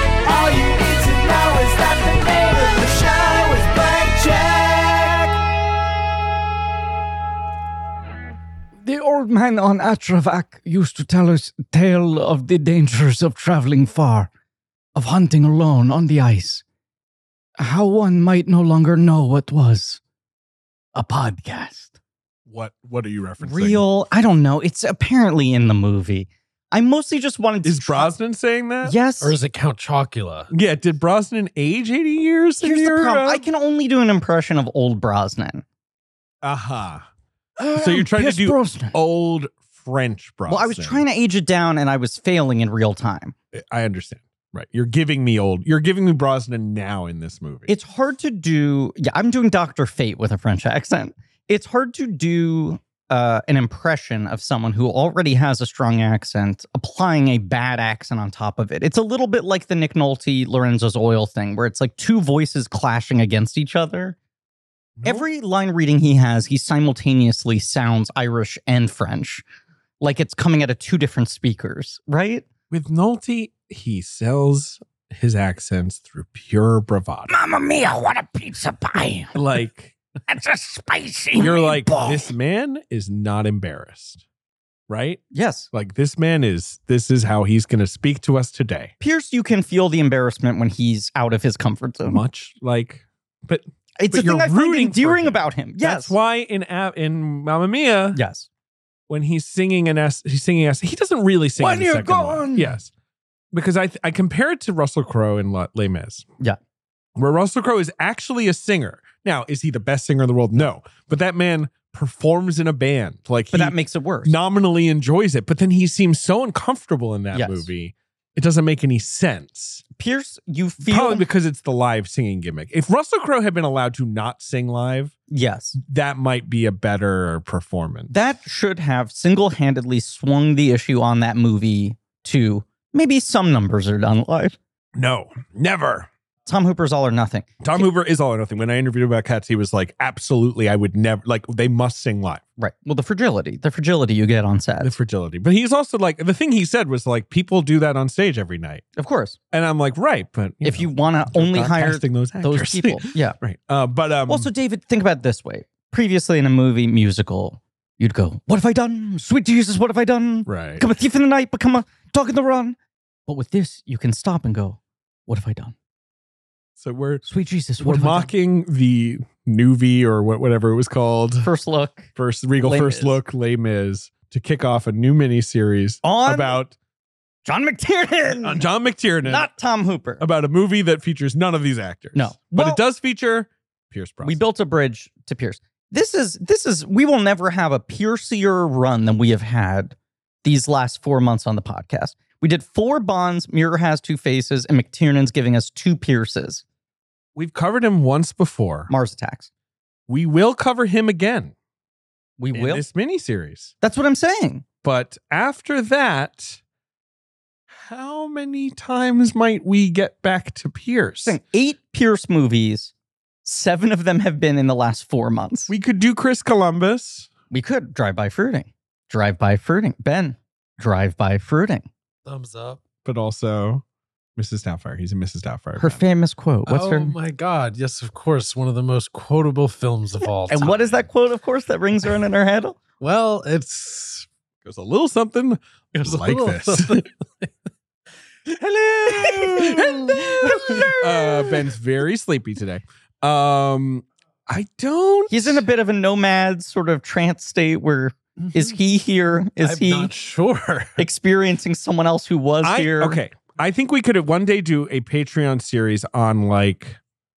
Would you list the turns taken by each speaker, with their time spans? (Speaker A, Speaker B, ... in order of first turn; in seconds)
Speaker A: 0.2-5.5, 8.8-14.3, 14.9-16.6, 17.6-20.0, 20.9-21.9, 23.4-28.1, 28.8-29.4, 32.6-35.6, 37.6-39.0, 40.5-43.4, 47.7-64.2, 65.0-69.4, 70.0-72.5, 77.3-79.3, 80.3-82.3, 85.3-85.7, 89.0-92.2, 94.0-96.2, 98.1-98.5, 101.6-102.8, 113.5-114.3, 117.3-117.7, 120.0-121.3, 125.3-125.8, 128.1-134.6, 136.5-137.8, 142.6-144.9, 149.0-149.4, 150.6-153.3, 154.3-162.8, 163.3-165.7, 167.2-168.3, 171.4-172.1, 172.6-173.2, 176.0-176.6, 177.4-178.6, 179.2-180.2, 182.2-182.8, 184.2-196.6, 198.9-199.5, 202.4-202.8, 203.8-204.7, 211.2-212.9, 213.4-215.7, 217.5-221.9, 225.8-227.2, 230.5-232.8, 239.1-241.0, 245.3-250.1, 251.0-253.2
Speaker B: 22.5-23.9, 27.6-28.9, 30.5-33.4, 36.4-37.0, 37.8-41.0, 43.5-47.7, 65.0-65.2, 72.7-77.3, 79.3-80.0, 81.4-84.2, 84.9-88.9, 92.1-98.2, 99.1-102.9, 103.5-106.3, 107.2-119.8, 120.8-125.2, 125.8-128.2, 134.9-136.1, 137.6-142.4, 144.8-148.8, 149.5-154.5, 160.5-160.8, 166.8-167.2, 167.8-171.5, 172.2-176.7, 178.4-179.5, 180.2-184.4, 197.3-198.9, 200.1-201.5, 202.5-203.7, 204.8-206.6, 207.7-211.4, 215.7-217.3, 223.0-223.8, 224.4-226.0, 234.6-237.0, 238.5-245.6, 252.6-257.0
Speaker C: 29.2-30.5, 222.3-222.8, 226.7-231.1, 233.0-234.3, 236.0-237.5, 240.6-240.9, 248.5-248.7, 249.6-251.0